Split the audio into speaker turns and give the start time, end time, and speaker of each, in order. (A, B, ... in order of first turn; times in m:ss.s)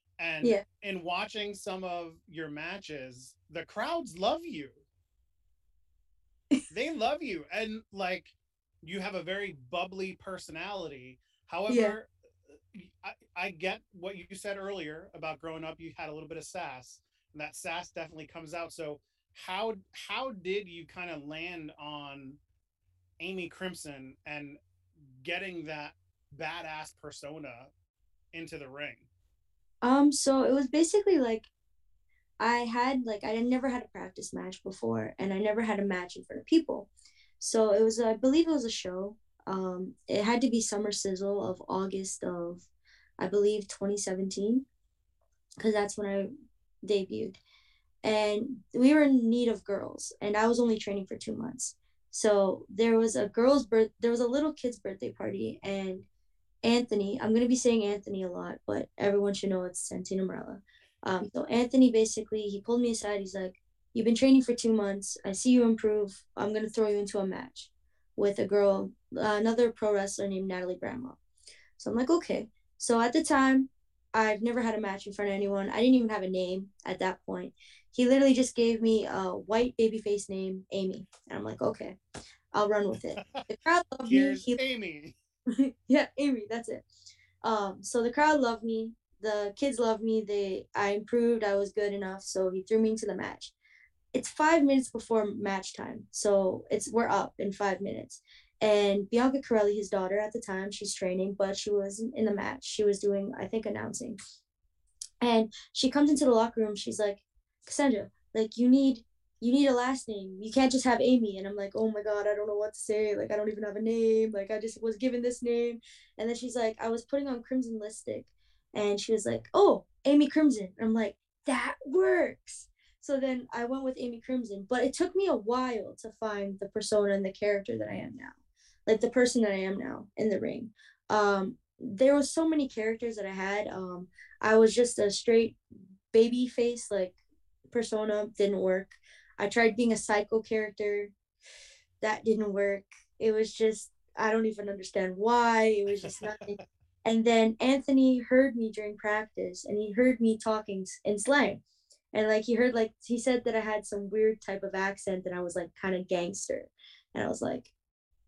0:00.2-0:04.8 A
0:06.7-0:22.4 A
0:11.7-0:12.0 B
0:23.2-0:27.7 A
0:28.3-0:29.1 A
0:29.8-0:31.5 B
0:32.4-0:42.6 B
0:43.2-0:44.6 B
0:45.6-0:46.3 B
0:46.8-0:47.4 B
0:48.0-0:56.0 B
0:56.6-1:11.2 B
1:11.8-1:22.0 B
1:22.5-1:24.6 B
1:23.2-1:23.5 A
1:24.1-1:25.2 A
1:25.6-1:26.8 B
1:27.4-1:33.5 B
1:34.1-1:44.2 B
1:45.2-2:08.3 B
2:08.8-2:15.6 B
2:16.1-2:17.2 B
2:17.7-2:21.1 B
2:22.0-2:31.6 B
2:25.9-2:26.6 A
2:32.1-2:37.7 B